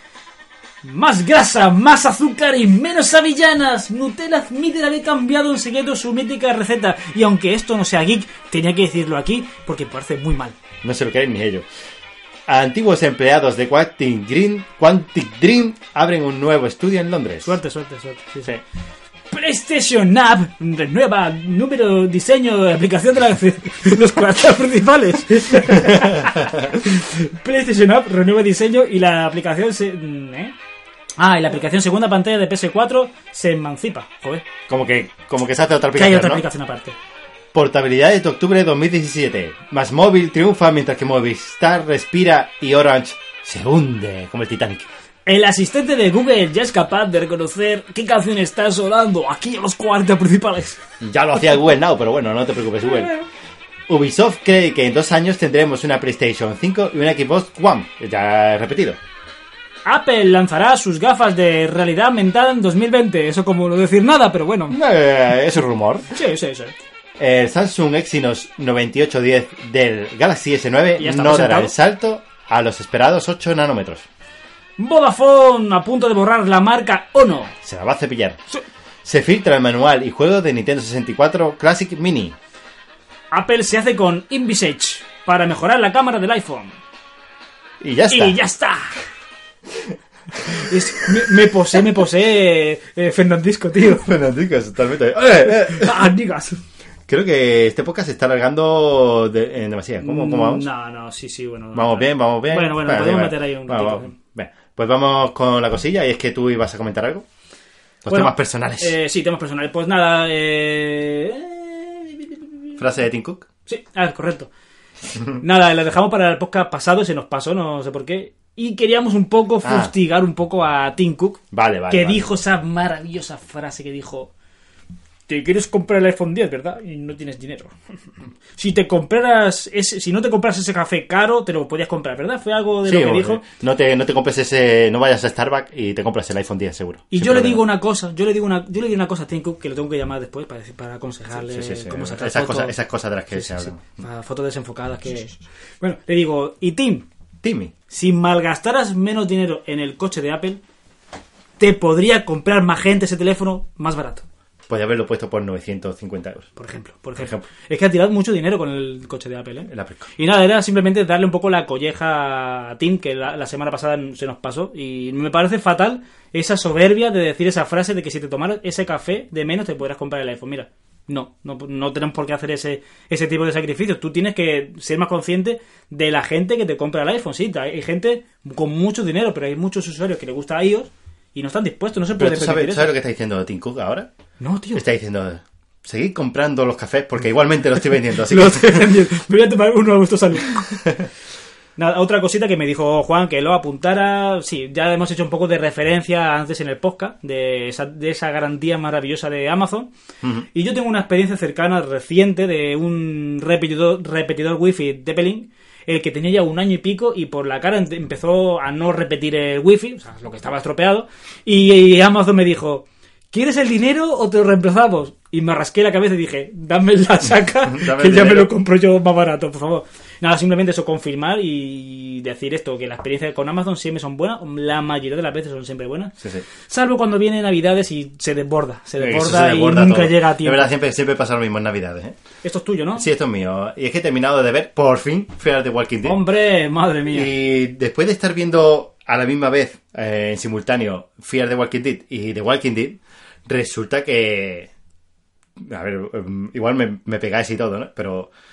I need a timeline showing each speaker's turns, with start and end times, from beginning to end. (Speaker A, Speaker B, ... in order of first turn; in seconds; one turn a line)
Speaker A: 0.8-10.6
Speaker B: 10.8-11.7
Speaker B: 12.5-17.6
Speaker A: 17.4-18.5
Speaker A: 19.3-30.6
Speaker B: 25.8-26.5
Speaker A: 31.2-34.5
Speaker B: 34.7-36.5
Speaker A: 36.0-37.0
Speaker B: 37.5-44.9
Speaker A: 45.3-50.8
Speaker B: 51.0-53.1
Speaker A: 52.8-53.2
Speaker B: 53.9-59.0
Speaker A: 59.9-64.8
Speaker B: 64.7-66.1
Speaker A: 66.1-66.7
Speaker B: 67.2-74.1
Speaker A: 71.0-71.7
Speaker A: 74.8-77.5
Speaker B: 77.6-78.4
Speaker B: 79.0-82.4
Speaker A: 83.3-86.8
Speaker B: 87.8-88.4
Speaker A: 88.1-89.0
Speaker A: 90.5-94.1
Speaker B: 93.8-96.0
Speaker A: 95.5-96.6
Speaker B: 97.1-100.7
Speaker A: 100.0-104.2
Speaker B: 101.7-107.2
Speaker B: 108.0-109.0
Speaker A: 108.1-112.8
Speaker B: 112.8-113.5
Speaker A: 113.7-114.5
Speaker A: 115.4-124.3
Speaker B: 119.6-119.9
Speaker B: 121.5-122.3
Speaker A: 125.3-127.7
Speaker A: 128.6-133.4
Speaker B: 132.8-137.6
Speaker A: 137.1-142.8
Speaker B: 141.4-144.0
Speaker A: 143.3-147.1
Speaker B: 147.4-147.7
Speaker A: 147.9-150.6
Speaker A: 151.6-154.2
Speaker B: 154.7-156.5
Speaker A: 156.6-182.9
Speaker B: 157.2-157.5
Speaker B: 159.7-160.1
Speaker B: 182.2-184.1
Speaker A: 184.4-184.8
Speaker B: 184.7-189.0
Speaker A: 188.1-190.8
Speaker A: 191.8-199.9
Speaker A: 200.5-226.2
Speaker B: 217.7-218.5
Speaker A: 226.7-230.7
Speaker B: 229.0-232.2
Speaker A: 232.4-233.1
Speaker B: 232.9-236.2
Speaker A: 236.0-237.3
Speaker B: 237.1-244.7
Speaker B: 245.6-248.3